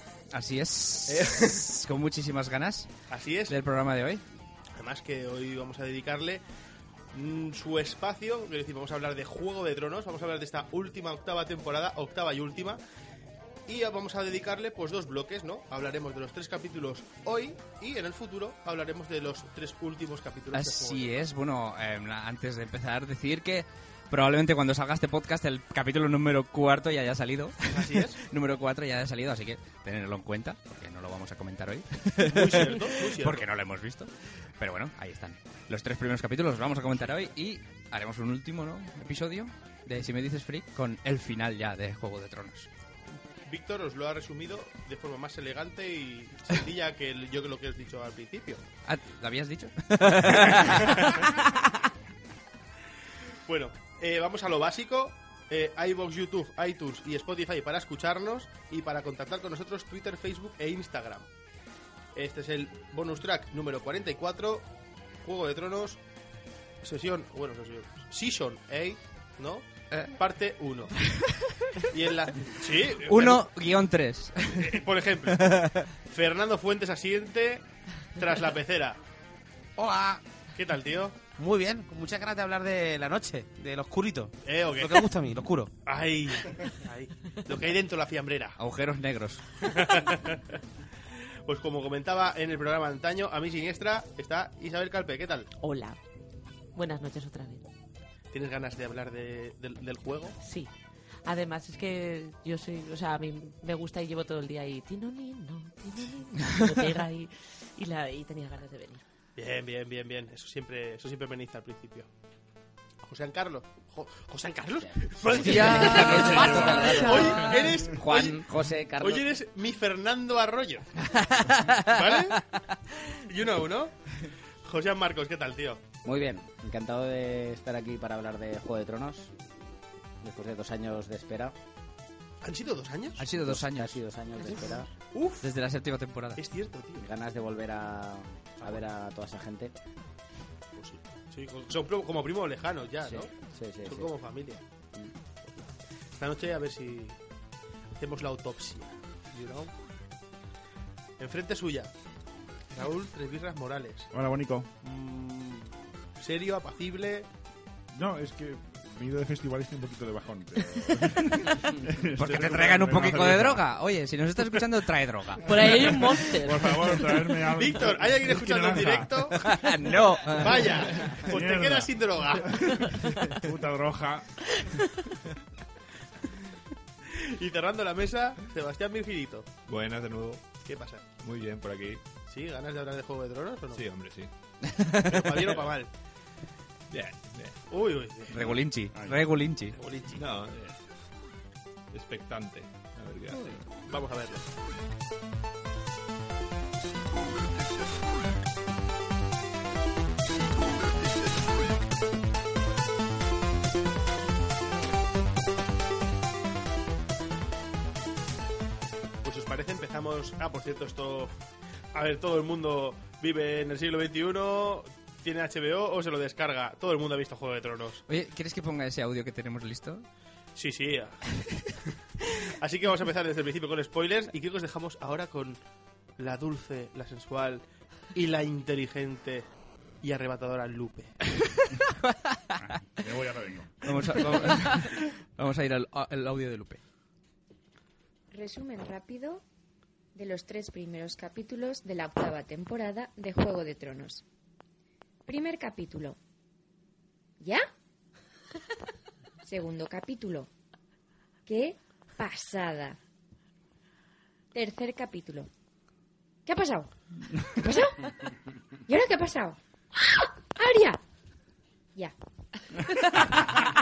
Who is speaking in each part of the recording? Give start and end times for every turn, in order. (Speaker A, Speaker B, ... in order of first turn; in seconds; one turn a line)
Speaker A: 0.3-2.9
Speaker B: 1.1-1.7
Speaker B: 3.1-3.6
Speaker A: 3.5-4.2
Speaker B: 4.8-6.4
Speaker B: 7.1-12.8
Speaker B: 13.7-21.3
Speaker A: 20.5-42.7
Speaker B: 27.6-28.2
Speaker B: 32.2-33.5
Speaker B: 43.5-48.6
Speaker A: 48.9-51.3
Speaker C: 51.3-51.9
Speaker B: 53.5-61.3
Speaker B: 62.1-64.7
Speaker B: 65.2-66.0
Speaker B: 66.8-71.0
Speaker B: 71.9-73.5
Speaker A: 73.0-75.9
Speaker B: 74.4-79.0
Speaker D: 79.8-80.2
Speaker B: 80.5-81.2
Speaker D: 81.4-85.7
Speaker B: 84.5-85.1
Speaker B: 85.8-88.6
Speaker A: 88.6-89.5
Speaker B: 89.6-90.6
Speaker B: 91.5-95.5
Speaker C: 95.6-96.0
Speaker C: 96.8-97.7
Speaker B: 98.3-100.4
Speaker C: 100.4-100.7
Speaker C: 101.2-109.0
Speaker B: 109.4-112.1
Speaker B: 113.0-118.5
Speaker E: 114.8-119.2
Speaker A: 115.4-117.7
Speaker C: 116.2-117.5
Speaker B: 119.0-120.9
Speaker A: 121.1-122.6
Speaker B: 121.8-122.4
Speaker B: 123.3-125.8
Speaker E: 126.0-129.3
Speaker E: 130.2-131.6
Speaker B: 132.4-133.2
Speaker A: 133.2-134.0
Speaker E: 133.3-134.9
Speaker B: 134.6-135.5
Speaker A: 135.4-136.4
Speaker B: 136.4-137.1
Speaker E: 137.0-139.7
Speaker B: 140.8-143.3
Speaker E: 143.0-144.1
Speaker B: 143.8-144.6
Speaker B: 145.4-147.2
Speaker B: 148.0-149.7
Speaker B: 151.2-151.9
Speaker B: 152.7-154.1
Speaker F: 154.1-154.7
Speaker B: 154.8-157.3
Speaker F: 157.9-163.7
Speaker A: 162.2-166.1
Speaker C: 165.4-167.1
Speaker F: 165.6-169.2
Speaker B: 167.5-169.6
Speaker A: 169.3-171.2
Speaker B: 170.3-172.7
Speaker F: 171.1-174.4
Speaker C: 172.9-173.4
Speaker C: 174.6-175.2
Speaker B: 177.1-179.5
Speaker G: 179.7-180.6
Speaker B: 180.7-181.0
Speaker G: 181.2-182.0
Speaker B: 182.3-183.8
Speaker G: 183.7-184.3
Speaker A: 184.6-185.3
Speaker B: 185.1-185.9
Speaker G: 185.4-185.7
Speaker G: 186.9-187.7
Speaker B: 187.7-188.5
Speaker A: 188.3-189.8
Speaker F: 188.5-189.3
Speaker B: 189.7-190.3
Speaker G: 190.1-190.8
Speaker G: 191.9-193.9
Speaker B: 193.8-194.5
Speaker B: 209.2-211.3
Speaker B: 211.9-218.0
Speaker A: 218.1-220.1
Speaker B: 220.6-221.2
Speaker B: 222.6-225.6
Speaker B: 226.2-229.5
Speaker B: 230.0-231.2
Speaker A: 232.1-232.6
Speaker F: 232.6-234.4
Speaker A: 233.8-236.8
Speaker H: 238.3-239.4
Speaker H: 240.2-244.2
Speaker H: 245.3-246.2
Speaker H: 247.4-247.7
Speaker H: 249.4-250.5
Speaker H: 251.5-253.0
Speaker H: 254.5-255.5
Speaker H: 256.5-258.3
Speaker H: 258.9-261.0
Speaker C: 263.1-263.3